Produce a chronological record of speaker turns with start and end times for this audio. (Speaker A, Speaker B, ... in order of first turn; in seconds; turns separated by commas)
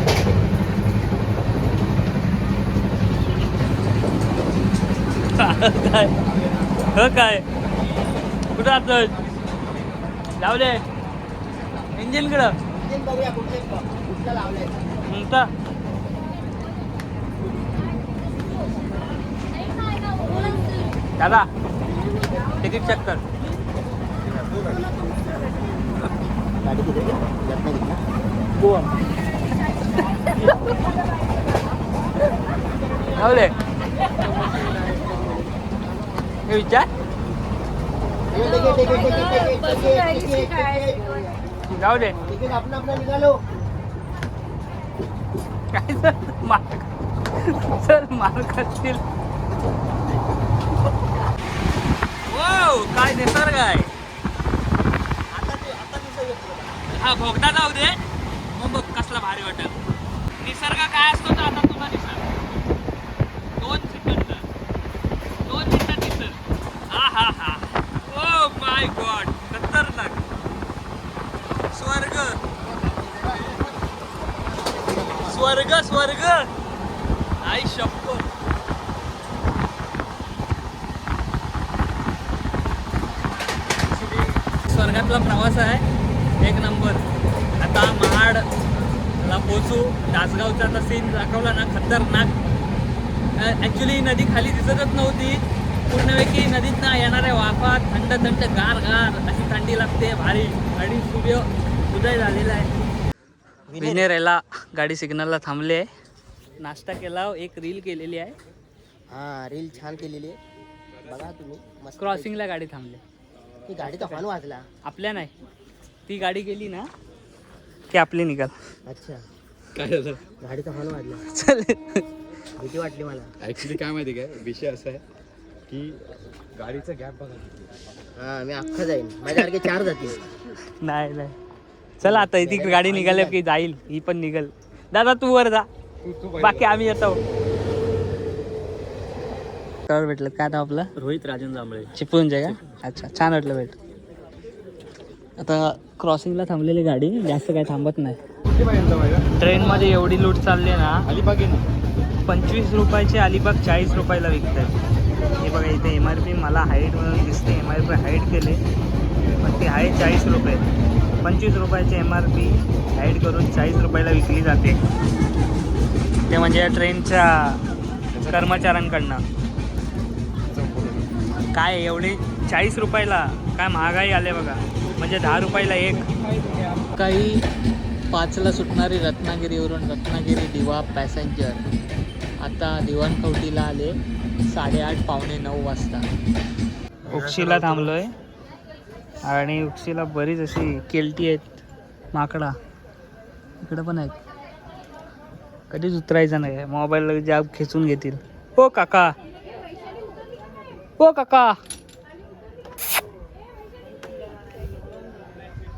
Speaker A: 5.3-6.2, Speaker A: 6.9-7.5, Speaker A: 8.6-9.2, Speaker A: 10.4-10.8, Speaker A: 11.9-12.6, Speaker B: 12.8-14.9, Speaker A: 15.1-15.5, Speaker A: 21.2-21.5, Speaker A: 22.6-23.2, Speaker B: 26.6-28.0, Speaker A: 28.6-28.9, Speaker A: 30.2-30.6, Speaker A: 33.1-33.5, Speaker A: 36.5-36.9, Speaker B: 38.3-41.1, Speaker A: 41.7-42.2, Speaker B: 42.3-43.4, Speaker A: 45.7-49.0, Speaker A: 52.3-53.9, Speaker A: 55.3-58.0, Speaker A: 58.5-59.8, Speaker A: 60.4-62.3, Speaker A: 63.6-64.5, Speaker A: 65.5-66.4, Speaker A: 66.9-70.2, Speaker A: 71.7-72.4, Speaker C: 73.1-73.6, Speaker A: 75.1-76.5, Speaker A: 77.4-78.2, Speaker A: 84.1-85.8, Speaker A: 86.4-87.0, Speaker A: 87.6-88.5, Speaker A: 89.2-92.3, Speaker A: 93.4-102.7, Speaker B: 103.7-104.1, Speaker A: 103.8-105.9, Speaker A: 106.6-108.4, Speaker B: 109.1-110.4, Speaker B: 111.1-112.3, Speaker A: 112.0-113.0, Speaker B: 113.7-114.7, Speaker A: 113.8-114.2, Speaker A: 114.8-115.3, Speaker A: 116.1-116.9, Speaker A: 117.9-118.5, Speaker B: 118.9-119.2, Speaker C: 119.7-120.2, Speaker B: 120.4-121.2, Speaker A: 121.3-122.0, Speaker B: 122.6-123.3, Speaker C: 123.4-125.0, Speaker C: 125.7-127.9, Speaker B: 128.2-130.3, Speaker A: 130.8-131.4, Speaker A: 132.0-135.7, Speaker B: 132.0-133.4, Speaker C: 136.0-137.0, Speaker A: 136.4-137.2, Speaker A: 139.9-140.9, Speaker C: 141.0-141.8, Speaker A: 141.9-143.8, Speaker A: 145.4-148.2, Speaker C: 148.5-149.3, Speaker A: 149.4-151.1, Speaker C: 151.1-151.6, Speaker A: 152.3-154.7, Speaker A: 155.4-158.6, Speaker A: 159.4-160.6, Speaker A: 161.2-164.8, Speaker A: 166.3-167.6, Speaker C: 168.1-168.7, Speaker A: 168.3-169.2, Speaker C: 170.5-171.2, Speaker A: 171.5-176.1, Speaker C: 176.2-176.9, Speaker A: 177.0-177.4, Speaker A: 178.1-181.6, Speaker A: 182.4-186.1, Speaker C: 187.1-187.4, Speaker A: 187.1-188.1, Speaker A: 189.3-192.6, Speaker A: 193.6-194.2, Speaker A: 195.7-199.2, Speaker A: 201.0-201.6